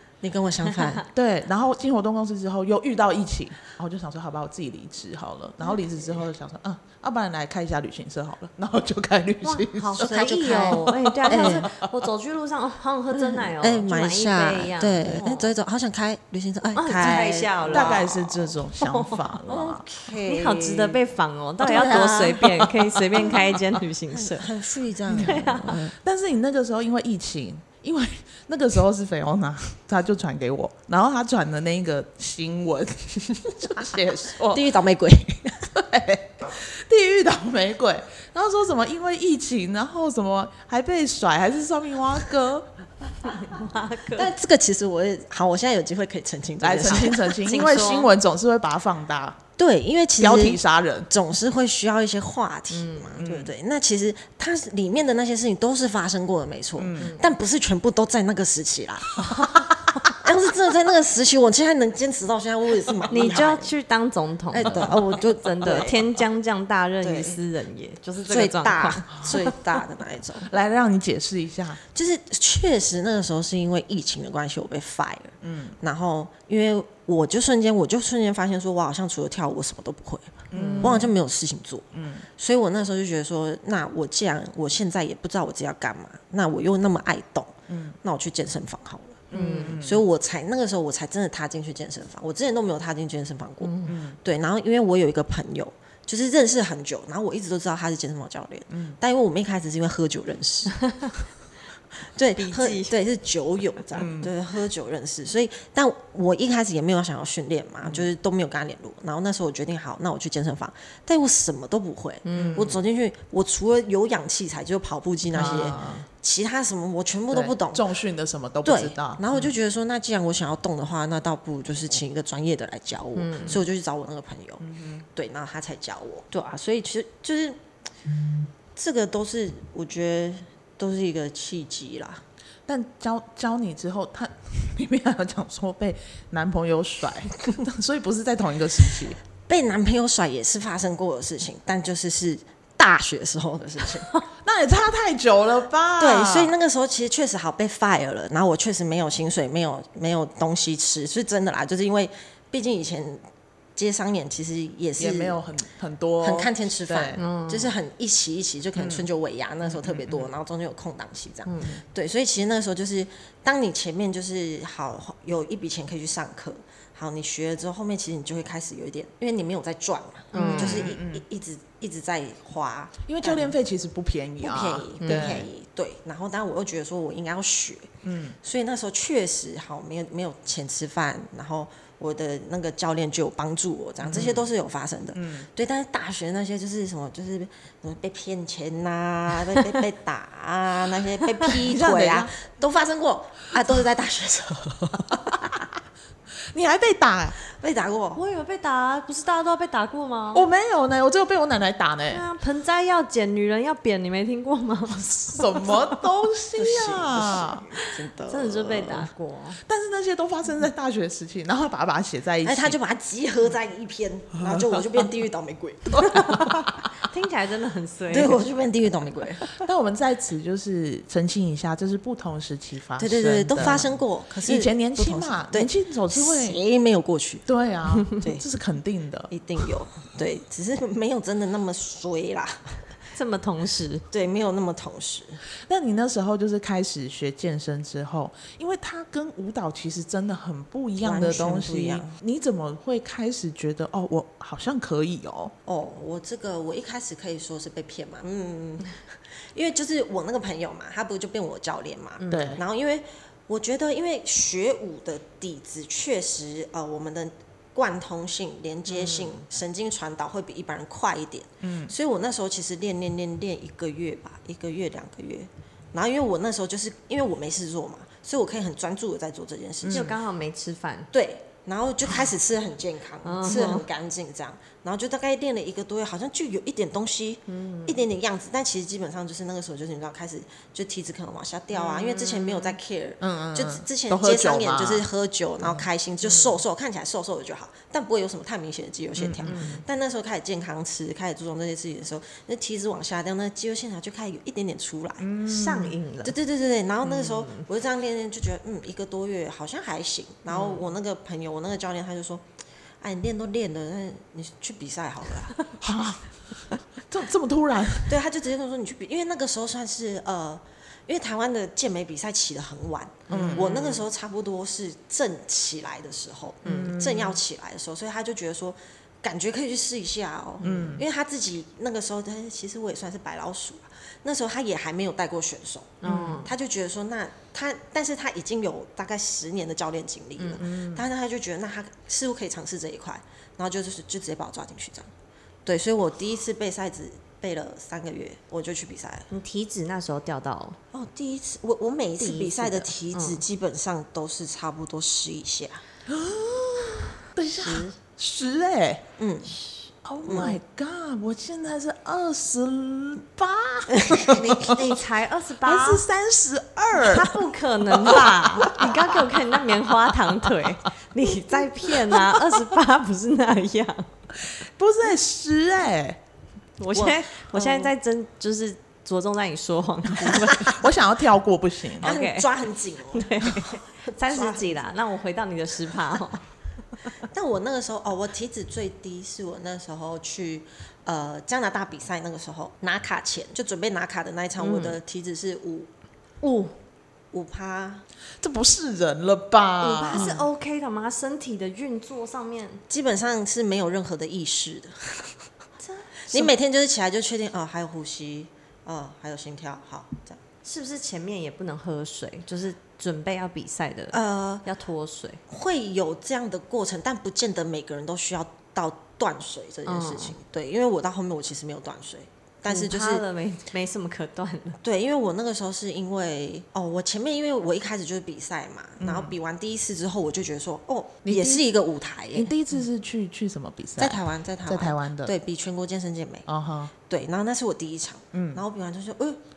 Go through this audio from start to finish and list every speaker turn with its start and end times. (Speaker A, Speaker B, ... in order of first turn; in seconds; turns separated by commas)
Speaker A: 0.2-1.0, Speaker B: 1.1-11.9, Speaker C: 9.4-15.5, Speaker A: 10.0-11.7, Speaker A: 13.2-18.5, Speaker C: 16.8-18.1, Speaker B: 17.7-19.9, Speaker C: 18.8-19.3, Speaker A: 19.5-21.0, Speaker C: 20.1-24.5, Speaker B: 21.6-23.6, Speaker A: 21.6-22.4, Speaker A: 24.1-25.9, Speaker B: 25.1-34.7, Speaker C: 25.1-25.9, Speaker A: 34.5-35.7, Speaker B: 35.7-42.8, Speaker C: 43.3-44.3, Speaker A: 44.1-47.6, Speaker B: 46.6-49.4, Speaker C: 47.1-48.1, Speaker A: 49.6-59.5, Speaker B: 50.2-51.1, Speaker C: 52.7-53.2, Speaker B: 53.2-53.5, Speaker B: 56.8-57.2, Speaker C: 57.0-57.3, Speaker A: 60.1-63.7, Speaker C: 63.1-69.8, Speaker A: 64.5-66.0, Speaker A: 67.0-67.4, Speaker A: 68.2-70.5, Speaker B: 70.5-71.8, Speaker A: 71.8-100.8, Speaker B: 75.4-75.8, Speaker B: 80.5-81.1, Speaker C: 80.5-81.0, Speaker B: 81.9-82.3, Speaker B: 87.7-88.0, Speaker B: 89.3-90.0, Speaker C: 89.3-89.8, Speaker C: 93.6-94.0, Speaker B: 93.9-94.2, Speaker B: 98.7-99.0, Speaker A: 102.0-117.8, Speaker C: 102.4-103.0, Speaker B: 104.0-104.3, Speaker C: 112.2-112.8, Speaker B: 112.3-112.7, Speaker B: 115.3-116.1, Speaker C: 115.4-115.8, Speaker B: 117.3-119.5, Speaker A: 118.6-124.6, Speaker C: 123.2-123.6, Speaker B: 124.6-125.1, Speaker A: 125.1-127.6, Speaker A: 128.7-132.2, Speaker B: 132.7-139.2, Speaker A: 139.5-144.1, Speaker B: 144.4-146.6, Speaker A: 146.0-155.4, Speaker B: 155.0-157.2, Speaker A: 156.2-173.6, Speaker C: 157.2-157.7, Speaker B: 158.8-159.1, Speaker B: 159.7-160.2, Speaker C: 161.5-161.8, Speaker C: 170.3-171.0, Speaker B: 170.3-171.2, Speaker B: 173.1-175.4, Speaker A: 174.4-195.6, Speaker C: 175.0-175.5, Speaker B: 178.0-178.4, Speaker B: 184.0-184.4, Speaker B: 185.2-185.5, Speaker B: 191.4-192.3, Speaker B: 196.5-197.4, Speaker A: 197.5-198.2, Speaker C: 198.2-200.5, Speaker B: 200.3-202.2, Speaker C: 202.1-205.9, Speaker B: 204.9-207.7, Speaker A: 206.6-209.1, Speaker C: 207.8-209.6, Speaker B: 209.7-212.8, Speaker A: 212.4-216.6, Speaker B: 214.3-214.9, Speaker B: 215.9-216.5, Speaker C: 217.0-218.4, Speaker A: 218.1-219.5, Speaker B: 219.5-226.6, Speaker A: 223.0-227.5, Speaker B: 227.5-229.3, Speaker A: 228.1-228.4, Speaker A: 229.3-232.9, Speaker C: 233.1-234.1, Speaker A: 234.1-235.4, Speaker B: 235.7-245.5, Speaker A: 241.0-242.2, Speaker A: 245.7-270.1, Speaker C: 252.2-252.6, Speaker B: 252.3-252.6, Speaker C: 258.9-259.3, Speaker B: 261.6-261.9, Speaker B: 269.8-270.1, Speaker C: 269.9-271.1, Speaker A: 271.1-295.3, Speaker C: 273.2-273.9, Speaker C: 277.5-278.0, Speaker C: 281.7-282.8, Speaker B: 283.2-285.1, Speaker C: 286.2-286.6, Speaker B: 289.2-289.8, Speaker C: 289.4-289.8, Speaker B: 295.2-296.0, Speaker C: 295.5-296.4, Speaker A: 296.2-305.7, Speaker C: 297.0-297.7, Speaker C: 300.5-300.8, Speaker B: 305.8-308.2, Speaker A: 308.1-335.1, Speaker B: 313.3-313.7, Speaker C: 313.3-314.0, Speaker C: 316.6-317.0, Speaker B: 316.6-317.4, Speaker B: 320.6-321.0, Speaker C: 326.0-326.5, Speaker B: 326.0-326.5, Speaker C: 330.4-330.6, Speaker B: 330.6-331.1, Speaker A: 335.6-339.3, Speaker C: 339.3-340.8, Speaker A: 340.9-345.8, Speaker C: 342.2-343.4, Speaker B: 346.1-349.1, Speaker C: 347.4-347.9, Speaker A: 349.2-349.5, Speaker C: 349.6-350.6, Speaker B: 350.1-355.0, Speaker A: 350.2-350.6, Speaker A: 354.0-354.5, Speaker C: 354.3-356.0, Speaker B: 355.6-357.4, Speaker C: 357.0-364.1, Speaker B: 358.0-359.2, Speaker B: 361.8-362.4, Speaker B: 364.5-366.2, Speaker C: 366.8-370.9, Speaker A: 366.9-367.9, Speaker A: 370.2-370.7, Speaker B: 370.7-372.1, Speaker A: 372.0-374.8, Speaker C: 372.0-372.6, Speaker C: 373.1-376.5, Speaker A: 377.2-385.9, Speaker C: 384.6-385.0, Speaker C: 386.4-386.7, Speaker A: 387.3-388.1, Speaker B: 388.4-390.4, Speaker C: 389.8-392.8, Speaker A: 390.1-390.5, Speaker A: 392.9-395.4, Speaker C: 395.8-396.5, Speaker A: 396.3-400.4, Speaker C: 400.6-405.4, Speaker A: 404.1-404.7, Speaker A: 405.5-413.2, Speaker C: 409.9-410.4, Speaker C: 412.7-414.8, Speaker A: 414.8-422.5, Speaker B: 419.0-419.3, Speaker B: 421.2-421.7, Speaker B: 422.3-425.3, Speaker A: 424.0-426.5, Speaker B: 426.5-426.9, Speaker A: 427.0-429.4, Speaker B: 428.3-428.6